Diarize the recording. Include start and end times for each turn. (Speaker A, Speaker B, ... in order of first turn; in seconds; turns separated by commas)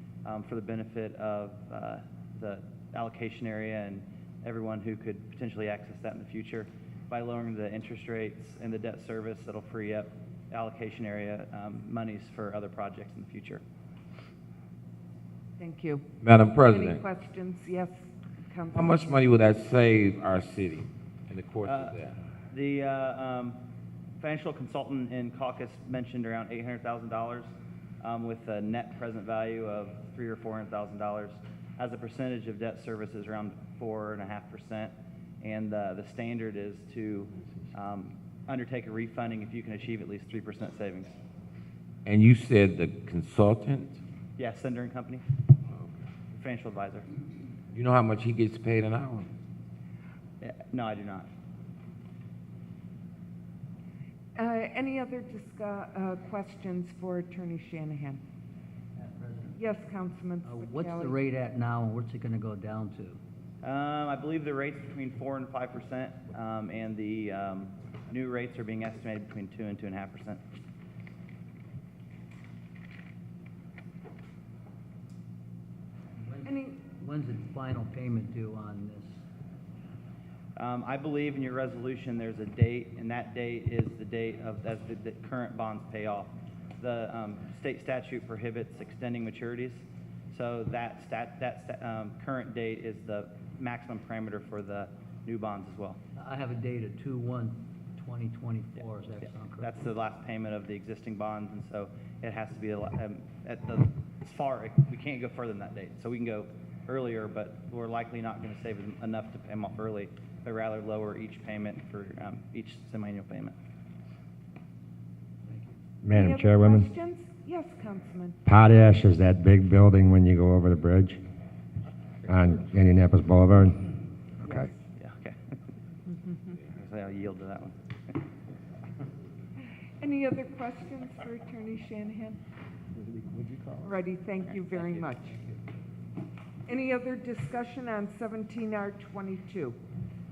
Speaker A: 0.2-13.6, Speaker B: 15.6-16.1, Speaker C: 16.2-17.0, Speaker B: 16.7-19.2, Speaker C: 18.7-22.1, Speaker A: 21.6-22.0, Speaker A: 22.5-23.6, Speaker A: 24.2-41.2, Speaker C: 42.1-44.0, Speaker A: 44.4-45.2, Speaker A: 46.3-47.1, Speaker C: 47.7-49.3, Speaker A: 50.4-51.3, Speaker B: 54.4-58.2, Speaker D: 59.0-59.6, Speaker B: 59.5-61.2, Speaker D: 60.4-63.2, Speaker A: 63.6-70.4, Speaker D: 76.2-79.2, Speaker B: 76.5-76.8, Speaker A: 80.6-96.0, Speaker D: 96.2-99.7, Speaker A: 98.8-113.5, Speaker D: 115.5-115.8, Speaker E: 116.0-116.9, Speaker B: 116.1-118.4, Speaker E: 118.5-121.2, Speaker E: 122.3-123.9, Speaker E: 124.4-124.7, Speaker A: 125.0-125.4, Speaker A: 126.8-127.8, Speaker B: 130.0-132.4, Speaker D: 133.2-133.7, Speaker B: 133.8-135.4, Speaker B: 136.7-139.8